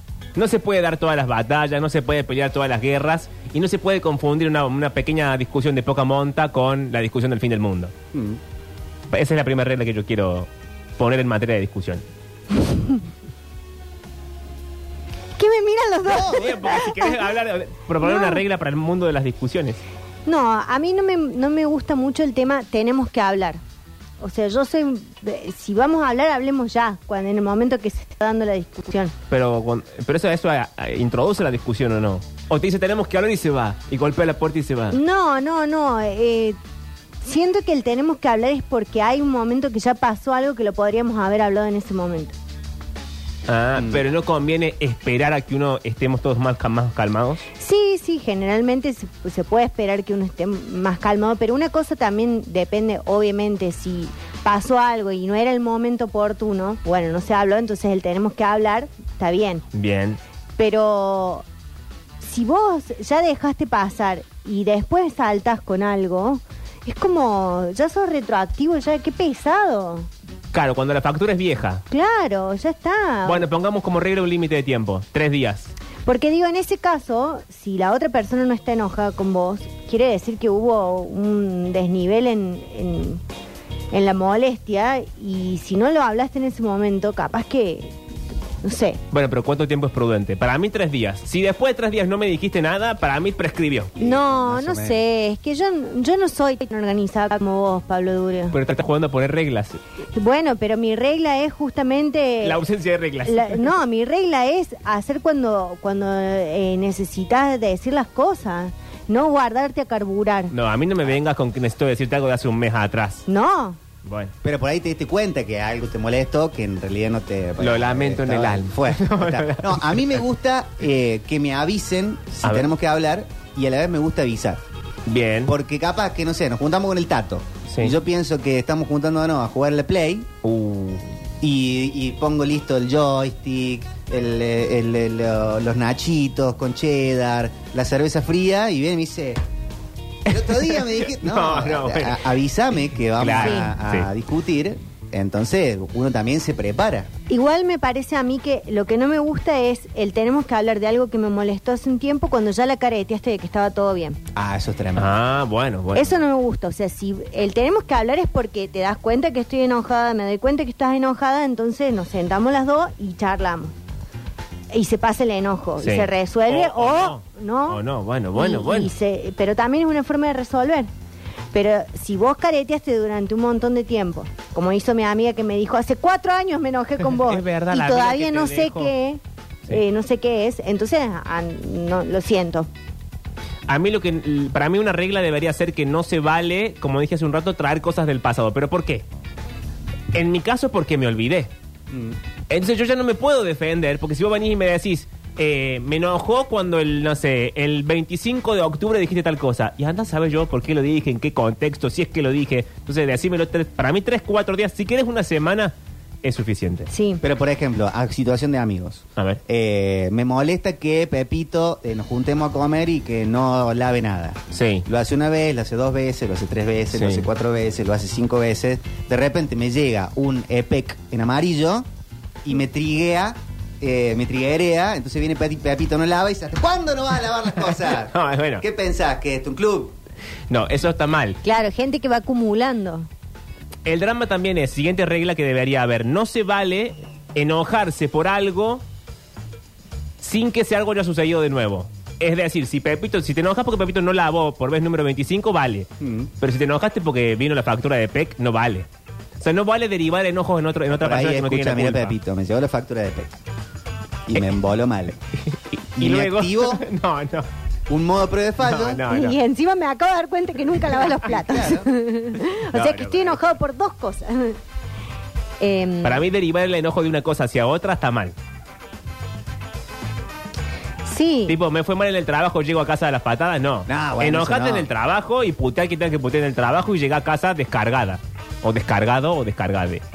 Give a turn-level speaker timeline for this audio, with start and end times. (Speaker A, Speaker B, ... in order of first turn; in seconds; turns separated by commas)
Speaker A: 0.3-7.9, Speaker B: 8.1-8.4, Speaker A: 9.1-12.0, Speaker C: 15.4-17.2, Speaker A: 16.1-19.8, Speaker C: 18.0-18.4, Speaker C: 20.2-23.6, Speaker C: 24.2-29.1, Speaker A: 29.3-35.0, Speaker C: 34.9-36.6, Speaker C: 37.2-42.3, Speaker A: 43.5-47.4, Speaker C: 47.5-59.6, Speaker A: 59.7-60.2, Speaker C: 60.6-61.4, Speaker C: 62.2-70.1, Speaker A: 70.5-71.8, Speaker C: 71.9-73.5, Speaker A: 73.2-75.7, Speaker C: 76.0-83.2, Speaker C: 83.9-87.9, Speaker C: 88.6-89.0, Speaker A: 89.1-94.0, Speaker C: 94.0-98.5, Speaker B: 94.0-95.0, Speaker A: 98.5-99.8, Speaker C: 100.1-102.6, Speaker A: 102.4-103.7, Speaker C: 103.2-110.5, Speaker A: 110.5-113.2, Speaker C: 113.3-113.8, Speaker A: 114.0-114.3, Speaker B: 114.4-124.6, Speaker A: 117.6-120.1, Speaker A: 125.0-125.5, Speaker B: 125.5-130.3, Speaker A: 127.7-127.9, Speaker A: 130.4-131.0, Speaker B: 131.4-139.4, Speaker B: 140.3-147.1, Speaker A: 140.3-142.3, Speaker A: 143.2-144.1, Speaker C: 143.3-143.7, Speaker C: 147.3-154.2, Speaker B: 154.3-155.2, Speaker A: 154.9-156.2, Speaker C: 155.9-163.7, Speaker C: 164.7-167.8, Speaker A: 165.8-168.9, Speaker C: 168.3-170.9, Speaker C: 171.5-182.7, Speaker A: 177.0-178.9, Speaker A: 183.7-189.1, Speaker A: 190.1-191.5, Speaker B: 191.9-192.2, Speaker A: 192.5-206.9, Speaker C: 206.9-207.2, Speaker B: 207.2-221.8, Speaker A: 214.5-214.8, Speaker A: 216.9-217.2, Speaker B: 222.4-229.9, Speaker A: 228.0-228.6, Speaker A: 230.5-231.4, Speaker C: 231.4-233.1, Speaker A: 233.8-238.8, Speaker A: 240.2-245.9, Speaker B: 246.0-246.3, Speaker A: 246.4-248.9, Speaker A: 249.4-252.2, Speaker B: 250.9-253.4, Speaker B: 254.3-255.2, Speaker A: 255.5-257.5, Speaker B: 255.9-256.8, Speaker B: 257.9-259.0, Speaker A: 258.6-259.4, Speaker C: 259.1-264.6, Speaker B: 261.2-261.9, Speaker A: 262.6-263.4, Speaker C: 265.6-266.2, Speaker A: 266.0-268.3, Speaker C: 271.0-271.6, Speaker A: 271.5-280.0, Speaker B: 273.9-274.9